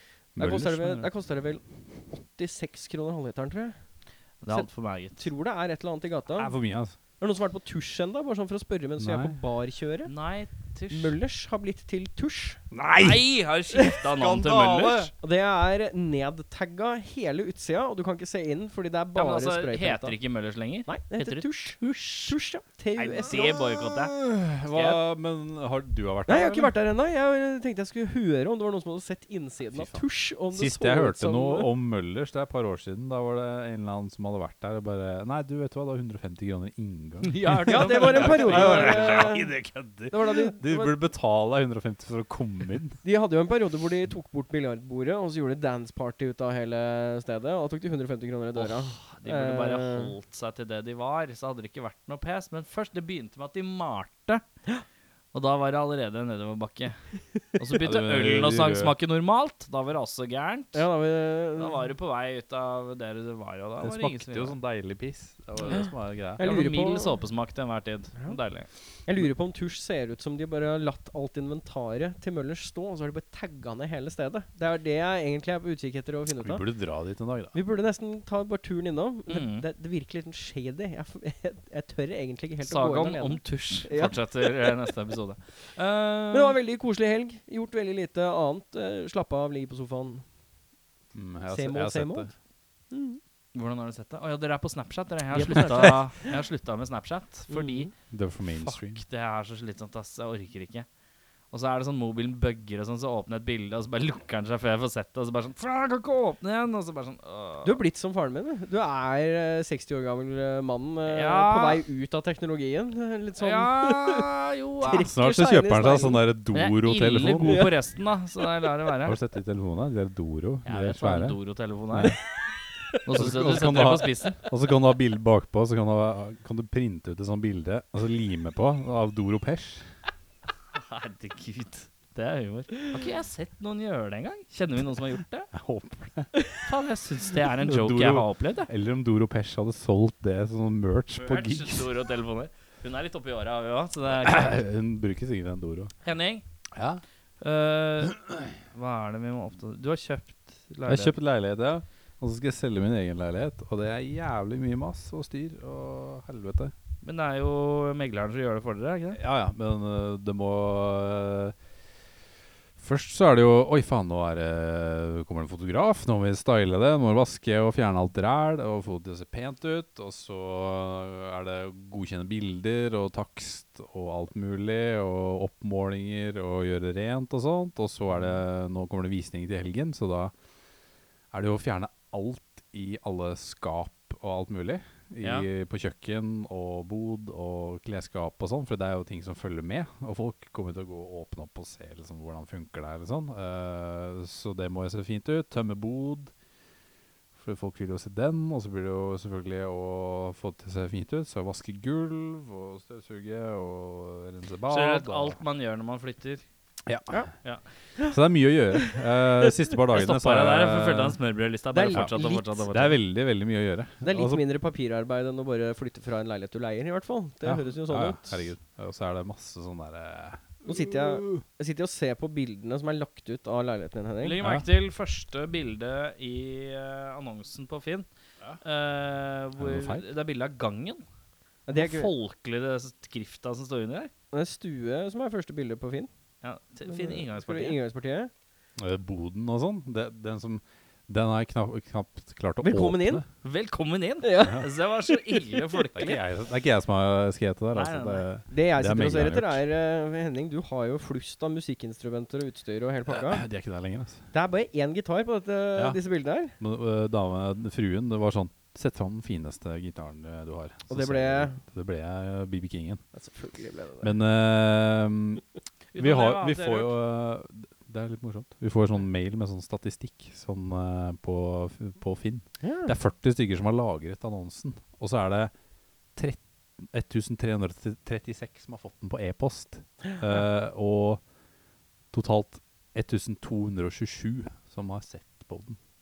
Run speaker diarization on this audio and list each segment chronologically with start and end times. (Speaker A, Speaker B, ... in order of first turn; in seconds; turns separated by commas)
Speaker A: 0.3-3.8, Speaker B: 0.4-0.9, Speaker C: 0.4-1.1, Speaker C: 4.4-5.3, Speaker A: 4.5-6.5, Speaker B: 6.4-7.0, Speaker A: 7.2-10.1, Speaker B: 9.0-9.4, Speaker C: 10.1-11.2, Speaker A: 10.9-12.6, Speaker B: 12.7-13.3, Speaker C: 13.0-15.1, Speaker B: 14.1-15.1, Speaker A: 15.2-20.2, Speaker C: 19.1-22.4, Speaker A: 20.9-23.6, Speaker C: 23.0-24.2, Speaker B: 23.2-26.7, Speaker C: 24.7-25.0, Speaker A: 26.3-31.7, Speaker B: 29.7-43.0, Speaker C: 37.2-39.3, Speaker A: 37.7-41.0, Speaker A: 43.0-50.1, Speaker C: 48.5-54.4, Speaker C: 55.3-60.9, Speaker B: 57.8-59.0, Speaker A: 60.7-61.9, Speaker C: 61.6-64.6, Speaker B: 63.8-66.4, Speaker A: 65.7-67.2, Speaker C: 66.4-68.7, Speaker A: 69.1-76.7, Speaker B: 76.3-77.5, Speaker A: 77.5-84.8, Speaker C: 79.3-79.7, Speaker C: 82.6-86.6, Speaker A: 86.3-90.2, Speaker B: 91.1-92.3, Speaker A: 91.5-92.3, Speaker A: 92.9-93.2, Speaker C: 93.5-97.9, Speaker A: 95.3-96.2, Speaker A: 97.5-97.9, Speaker B: 98.1-99.0, Speaker C: 98.7-100.9, Speaker C: 101.5-107.8, Speaker A: 107.6-114.3, Speaker C: 111.1-111.8, Speaker C: 113.4-115.1, Speaker A: 114.8-116.3, Speaker B: 115.0-117.7, Speaker C: 116.5-119.2, Speaker A: 117.5-117.7, Speaker B: 119.0-121.4, Speaker C: 120.7-122.2, Speaker B: 121.9-122.2, Speaker C: 123.0-124.4, Speaker B: 123.1-129.9, Speaker C: 130.8-135.5, Speaker B: 135.5-136.3, Speaker C: 136.7-138.7, Speaker B: 137.5-141.9, Speaker C: 141.2-144.6, Speaker B: 144.1-145.9, Speaker C: 146.0-146.4, Speaker B: 146.7-147.0, Speaker C: 147.4-148.2, Speaker B: 148.1-148.5, Speaker C: 148.7-151.2, Speaker B: 150.9-156.7, Speaker C: 157.0-159.2, Speaker B: 159.1-161.6, Speaker B: 162.8-180.3, Speaker B: 181.3-196.3, Speaker C: 185.2-185.5, Speaker B: 197.3-205.4, Speaker C: 204.7-206.4, Speaker B: 206.9-207.3, Speaker B: 208.0-211.2, Speaker C: 209.9-213.0, Speaker A: 211.7-212.6, Speaker B: 211.9-214.4, Speaker A: 214.0-218.4, Speaker B: 217.4-221.4, Speaker A: 220.7-224.4, Speaker C: 224.2-228.1, Speaker B: 224.4-224.7, Speaker C: 228.6-231.0, Speaker B: 229.6-230.1, Speaker A: 231.7-232.1, Speaker C: 231.7-234.1, Speaker A: 234.3-236.1, Speaker C: 236.4-237.8, Speaker A: 236.9-238.3, Speaker B: 238.8-243.2, Speaker A: 242.6-243.2, Speaker C: 243.4-246.2, Speaker A: 244.2-245.2, Speaker B: 245.9-249.6, Speaker C: 247.7-248.3, Speaker A: 248.5-253.5, Speaker B: 253.1-254.2, Speaker A: 254.3-256.6, Speaker B: 255.8-263.1, Speaker A: 260.9-261.6, Speaker A: 263.1-264.1, Speaker B: 264.0-275.5, Speaker C: 265.9-266.9, Speaker A: 272.6-272.9, Speaker B: 276.1-281.2, Speaker B: 282.1-285.8